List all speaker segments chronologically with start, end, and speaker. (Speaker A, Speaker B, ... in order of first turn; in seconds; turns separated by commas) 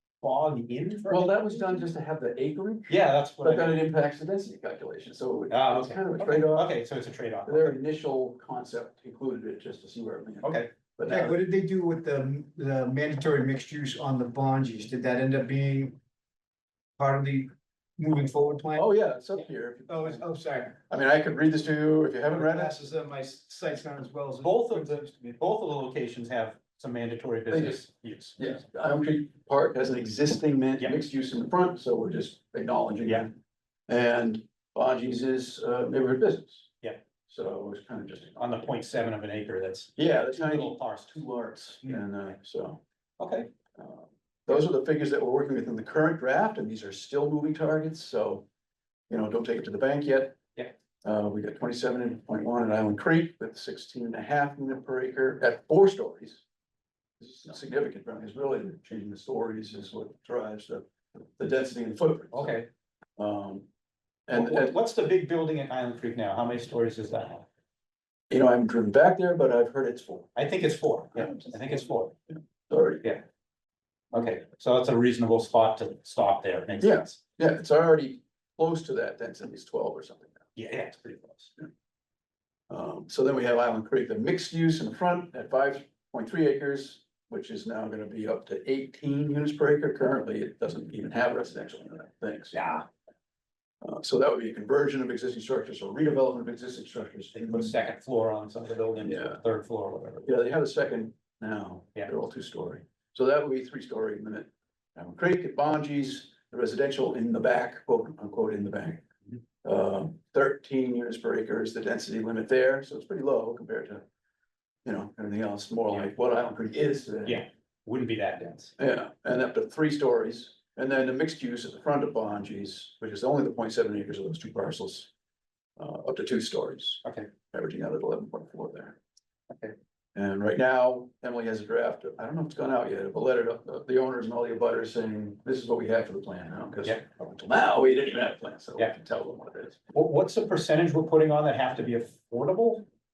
Speaker A: 0.2-1.4, Speaker B: 1.1-6.7, Speaker A: 2.9-3.8, Speaker A: 5.5-7.8, Speaker B: 7.5-11.4, Speaker A: 10.4-10.7, Speaker C: 11.1-15.9, Speaker C: 17.0-18.9, Speaker B: 18.8-22.8, Speaker C: 19.9-20.8, Speaker C: 22.3-25.1, Speaker A: 24.4-28.4, Speaker B: 27.5-27.8, Speaker B: 28.4-33.3, Speaker B: 33.9-36.7, Speaker B: 37.3-38.4, Speaker A: 38.4-41.2, Speaker B: 40.0-42.8, Speaker A: 43.2-43.5, Speaker B: 43.8-48.5, Speaker B: 49.1-50.4, Speaker B: 51.0-56.4, Speaker B: 57.2-62.6, Speaker A: 62.3-62.7, Speaker B: 63.2-63.7, Speaker B: 64.3-64.8, Speaker A: 64.3-67.5, Speaker B: 68.3-70.3, Speaker A: 70.3-72.2, Speaker B: 71.3-71.6, Speaker B: 72.3-73.0, Speaker A: 74.1-77.1, Speaker B: 76.8-80.5, Speaker A: 80.5-81.5, Speaker B: 82.7-92.7, Speaker A: 92.5-92.9, Speaker B: 93.8-97.8, Speaker A: 97.3-100.3, Speaker B: 99.0-99.4, Speaker B: 100.3-109.0, Speaker B: 109.6-114.0, Speaker B: 114.8-117.5, Speaker A: 117.3-118.8, Speaker B: 118.8-125.1, Speaker B: 125.8-129.0, Speaker A: 127.0-127.3, Speaker A: 129.5-129.8, Speaker B: 130.2-139.8, Speaker A: 139.9-142.9